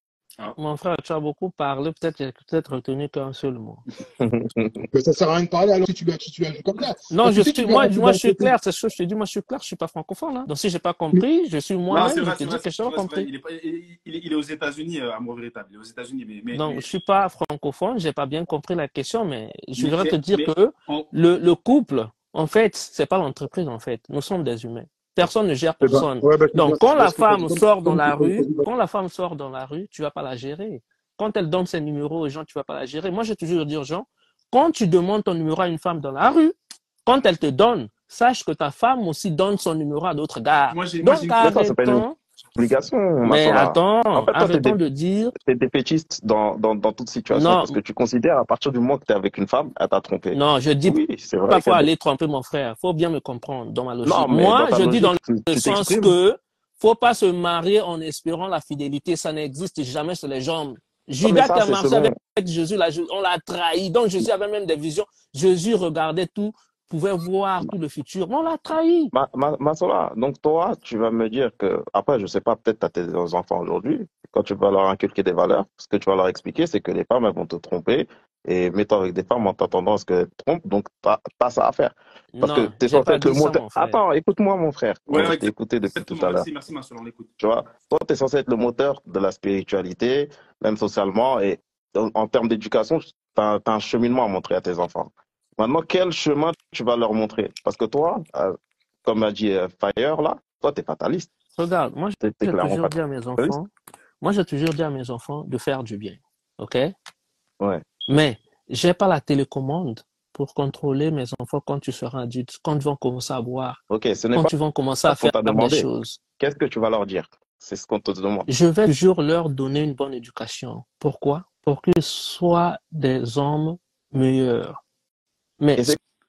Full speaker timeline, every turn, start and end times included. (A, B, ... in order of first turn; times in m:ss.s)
0:00.6-0:03.8 A
0:04.2-0:04.8 B
0:04.9-0:08.5 C
0:07.1-0:13.3 A
0:11.9-0:16.8 D
0:16.5-0:42.2 A
0:19.8-0:21.1 D
0:25.8-0:28.7 C
0:40.7-0:41.9 D
0:41.0-0:44.8 B
0:43.2-0:45.3 A
0:45.4-0:51.9 B
0:47.3-0:47.8 A
0:50.3-0:51.0 A
0:51.5-1:09.1 A
0:54.0-0:56.2 B
1:01.2-1:02.2 B
1:09.1-1:26.4 B
1:22.4-1:24.0 A
1:25.1-1:27.3 D
1:27.4-1:41.3 B
1:41.6-1:43.7 A
1:42.2-1:43.6 B
1:44.2-1:46.9 A
1:47.6-1:48.0 B
1:48.1-1:53.8 A
1:53.9-1:58.5 B
1:54.4-1:56.2 A
1:58.5-2:04.8 A
2:05.6-2:05.9 A